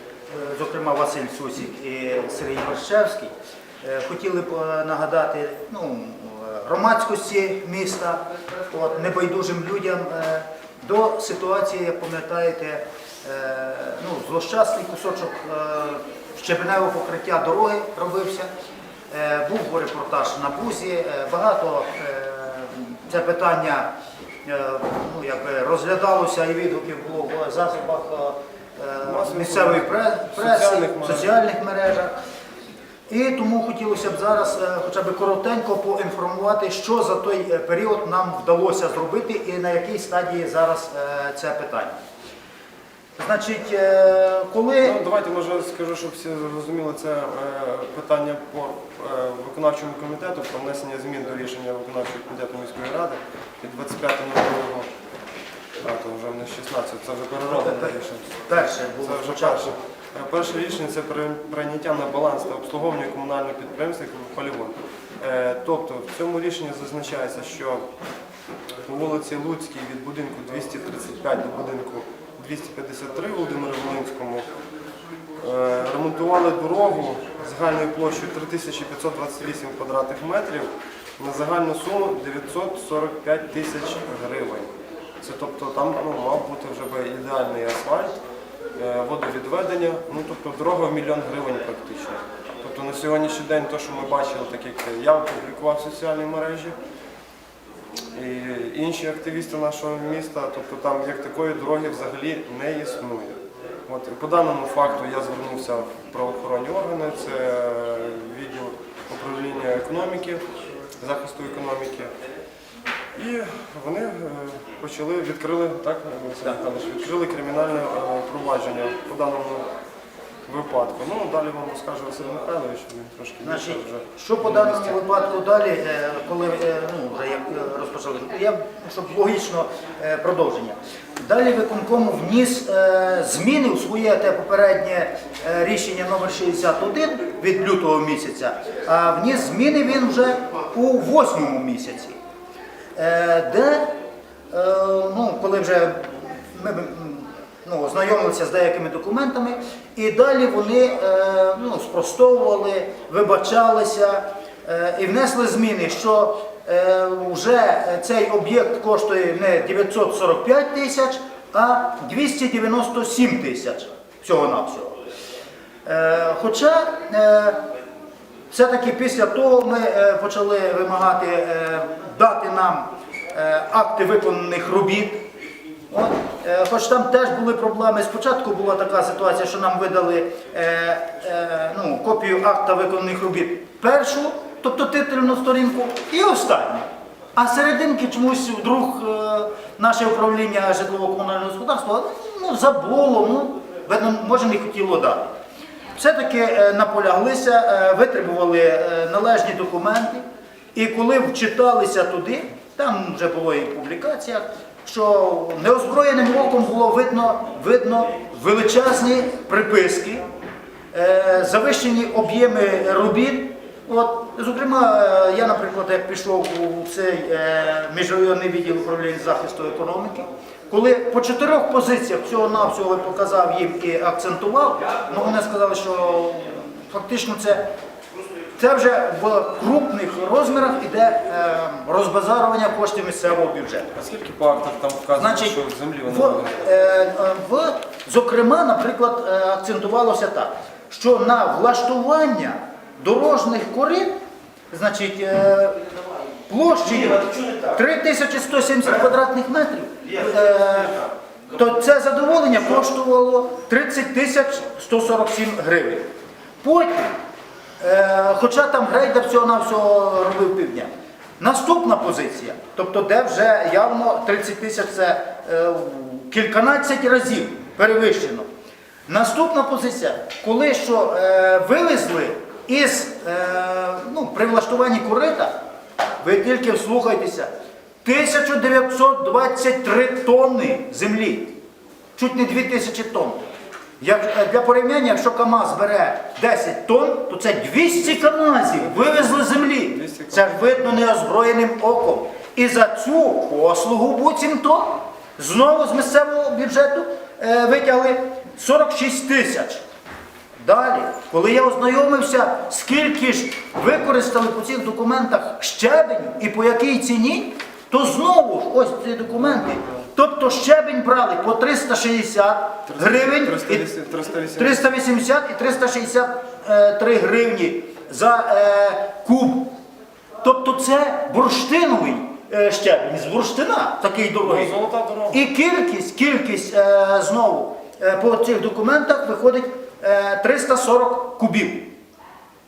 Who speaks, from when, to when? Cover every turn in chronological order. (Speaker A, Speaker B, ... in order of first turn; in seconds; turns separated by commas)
Speaker A: 0.3-18.5, Speaker A: 19.1-23.9, Speaker A: 24.4-32.1, Speaker B: 29.1-31.3, Speaker A: 33.1-42.0, Speaker A: 43.2-45.0, Speaker B: 44.8-54.9, Speaker B: 55.8-67.8, Speaker A: 57.4-59.7, Speaker B: 68.8-74.4, Speaker B: 75.4-88.1, Speaker B: 88.8-96.8, Speaker B: 98.1-110.4, Speaker B: 111.0-112.1, Speaker B: 113.2-119.7, Speaker B: 120.5-124.9, Speaker A: 123.4-142.2, Speaker A: 142.9-143.9, Speaker A: 144.5-165.0, Speaker A: 165.8-167.6, Speaker A: 168.5-175.2, Speaker A: 175.9-186.8, Speaker A: 187.3-195.3, Speaker A: 195.9-200.2, Speaker A: 200.7-210.2, Speaker A: 210.9-227.7, Speaker A: 228.6-233.9, Speaker B: 233.9-236.6, Speaker A: 235.2-244.1, Speaker A: 244.7-245.8, Speaker A: 246.5-251.0, Speaker A: 251.5-256.1, Speaker A: 256.6-257.1, Speaker A: 257.8-268.4, Speaker A: 269.1-275.5, Speaker A: 276.2-277.5, Speaker A: 278.0-281.6, Speaker A: 282.2-283.4, Speaker A: 284.0-299.8, Speaker B: 288.8-290.8, Speaker A: 300.6-313.9, Speaker B: 309.4-309.9, Speaker B: 312.9-314.9, Speaker A: 314.5-319.7, Speaker A: 320.4-324.7, Speaker B: 324.4-325.4, Speaker A: 325.3-331.9